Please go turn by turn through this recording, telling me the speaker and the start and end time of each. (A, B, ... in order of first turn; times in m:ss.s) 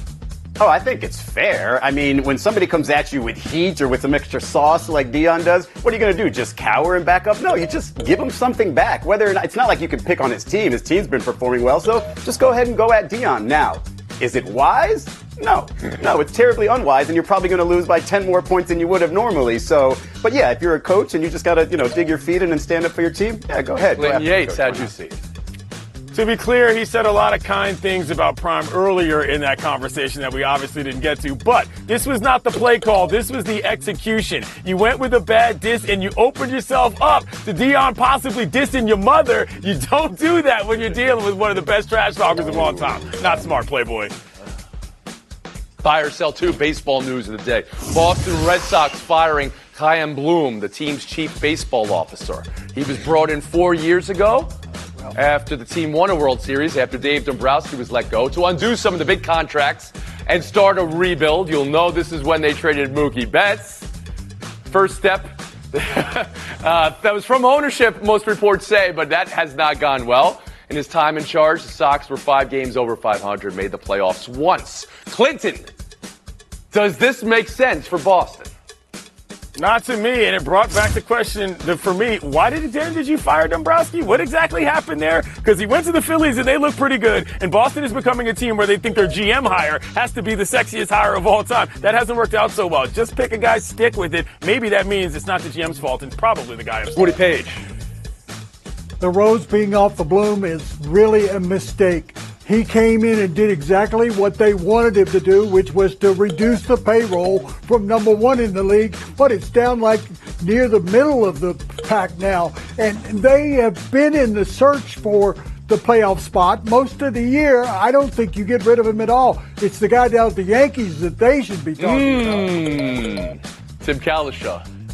0:00.6-0:24.9 A
0:23.9-0:25.2 B
0:26.1-0:44.1 C
0:45.8-0:54.5 B
0:55.1-1:03.8 B
1:04.7-1:15.7 B
1:16.7-1:18.5 B
1:19.6-1:37.1 C
1:37.0-1:37.6 B
1:39.0-2:02.6 D
2:01.8-2:04.6 B